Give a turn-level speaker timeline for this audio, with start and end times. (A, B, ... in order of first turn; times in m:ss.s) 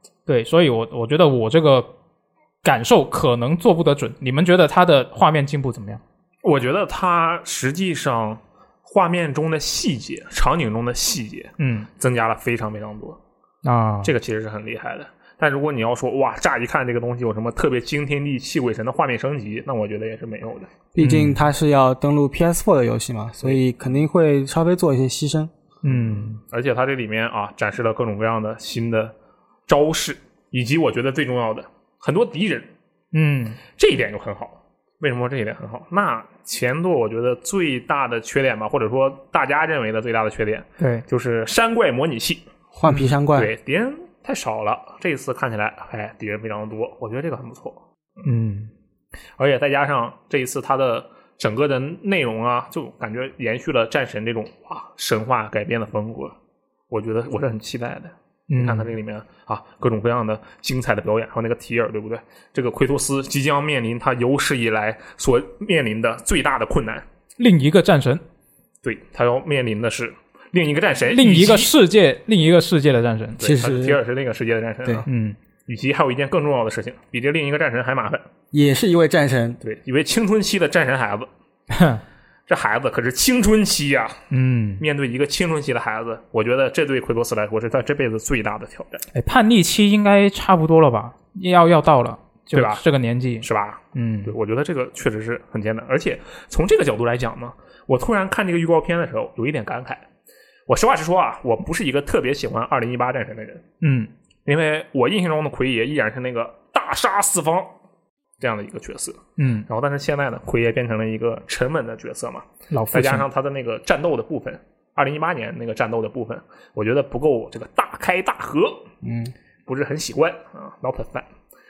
0:00.3-0:01.9 A
0:02.6-0:06.0 A
0:06.4-0:13.2 B
0:11.6-0:11.9 A
0:13.6-0:14.1 A
0:14.0-0:20.7 B
0:20.9-0:25.5 C
0:21.0-0:21.4 A
0:25.8-0:26.4 A
0:25.9-0:29.1 B
0:29.7-0:32.7 B
0:33.1-0:33.6 A
0:33.7-0:42.4 B
0:40.8-0:41.0 A
0:42.7-0:43.5 C
0:43.3-0:47.8 B
0:48.2-0:48.7 A
0:49.4-0:56.4 B
0:56.9-1:07.0 B
0:58.5-0:58.9 A
1:07.4-1:08.2 A
1:08.8-1:11.7 B
1:11.1-1:13.5 A
1:13.4-1:14.0 C
1:13.4-1:15.1 B
1:15.0-1:15.4 A
1:15.7-1:18.3 B
1:18.5-1:19.6 C
1:19.6-1:21.3 B
1:21.7-1:22.0 A
1:22.5-1:24.2 B
1:24.3-1:24.8 A
1:24.8-1:29.0 B
1:29.1-1:34.3 A
1:32.5-1:32.8 B
1:33.4-1:40.0 B
1:40.7-1:43.6 B
1:43.8-1:44.1 A
1:44.4-1:47.7 B
1:48.4-1:58.9 B
1:49.4-1:49.7 A
1:52.7-1:53.3 A
1:59.0-1:59.3 C
1:59.6-2:01.3 B